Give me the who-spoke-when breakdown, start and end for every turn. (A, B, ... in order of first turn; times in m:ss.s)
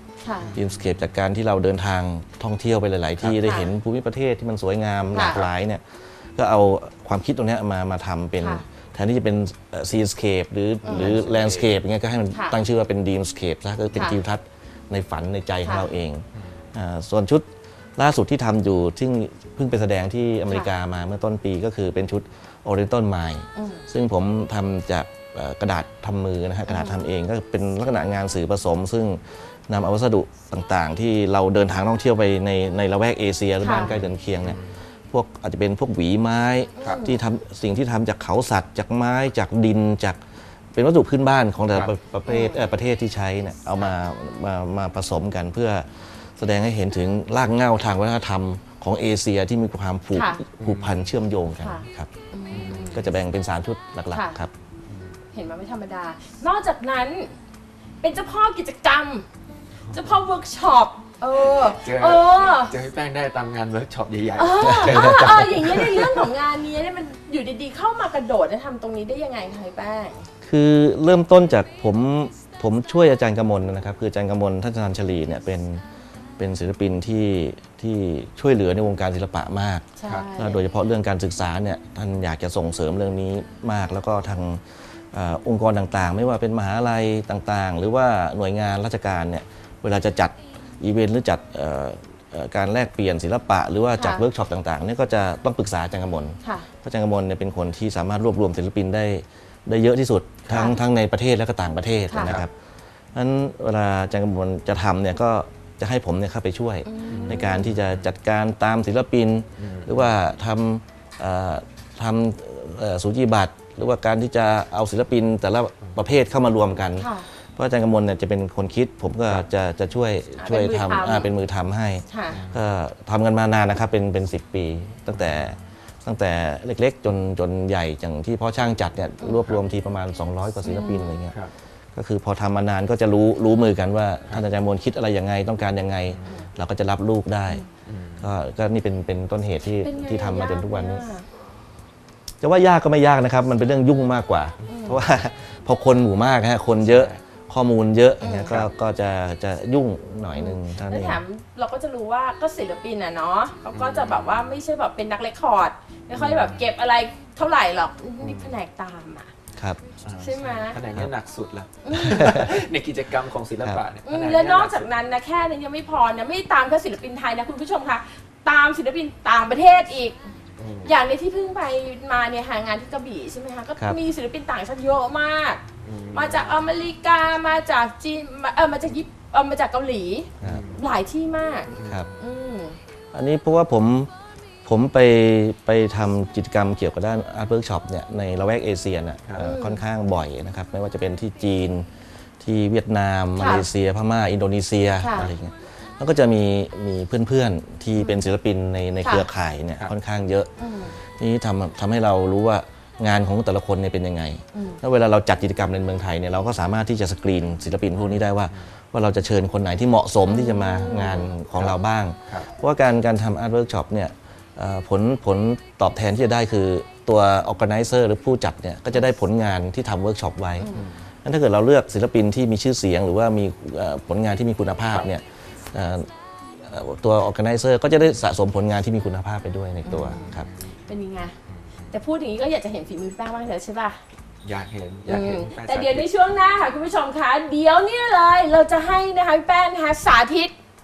0:00.2-0:00.6 A
0:00.4-0:00.8 B
0:00.5-0:40.2 C
0:03.4-0:03.7 A
0:05.1-0:05.4 A
0:08.4-0:08.6 A
0:10.8-0:11.7 B
0:10.8-0:11.1 A
0:15.6-0:15.9 A
0:23.6-0:23.8 A
0:26.7-0:27.0 A
0:33.6-0:33.9 A
0:33.8-0:34.7 B
0:36.8-0:37.2 A
0:40.7-0:52.1 C
0:42.3-0:42.7 A
0:50.1-0:50.4 A
0:50.6-0:50.9 B
0:51.6-0:53.0 A
0:52.5-0:53.0 B
0:52.7-0:54.5 C
0:54.1-0:54.4 A
0:55.3-0:57.3 A
0:58.0-0:59.2 A
0:59.9-1:02.7 A
1:01.4-1:06.2 B
1:04.4-1:10.2 A
1:04.6-1:05.4 C
1:10.4-1:15.8 C
1:16.4-1:42.5 C
1:20.0-1:20.6 A
1:20.0-1:20.3 B
1:33.9-1:34.2 A
1:36.4-1:36.7 A
1:40.5-1:40.7 B
1:42.1-1:42.4 A
1:42.2-1:42.4 B
1:43.1-2:11.4 C
1:46.8-1:47.7 A
1:47.1-1:48.0 B
1:49.6-1:50.0 B
1:57.0-1:57.2 A
2:00.4-2:01.3 A
2:02.1-2:02.4 A
2:02.3-2:02.6 B
2:10.6-2:11.2 A
2:11.9-2:17.6 C
2:17.8-2:18.3 B
2:18.2-2:21.0 C
2:19.8-2:21.2 A
2:22.4-2:31.2 C
2:24.7-2:25.0 A
2:26.8-2:27.2 B
2:28.2-2:28.5 A
2:30.3-2:39.3 A
2:33.7-2:34.4 B
2:36.1-2:36.6 B
2:38.2-2:38.5 B
2:39.6-2:39.8 C
2:40.0-2:44.9 B
2:40.2-2:40.8 A
2:41.8-2:42.5 A
2:41.9-2:42.6 C
2:44.0-2:50.2 A
2:50.6-2:51.0 B
2:50.8-3:02.8 A
2:55.8-2:56.5 B
3:00.4-3:00.7 C
3:00.4-3:00.8 B
3:01.7-3:02.1 B
3:03.1-3:04.1 C
3:04.6-3:11.9 C
3:09.4-3:09.8 A
3:12.4-3:40.7 C
3:13.4-3:13.7 A
3:15.0-3:15.3 A
3:18.0-3:18.3 A
3:20.6-3:21.0 A
3:24.5-3:24.8 A
3:28.0-3:28.7 B
3:30.3-3:31.3 A
3:31.5-3:32.5 B
3:40.6-3:40.9 A
3:40.7-3:41.0 B
3:41.2-3:50.5 C
3:49.8-3:50.3 A
3:50.9-3:51.3 A
3:51.9-3:54.0 A
3:54.4-3:56.1 B
3:55.1-4:00.5 A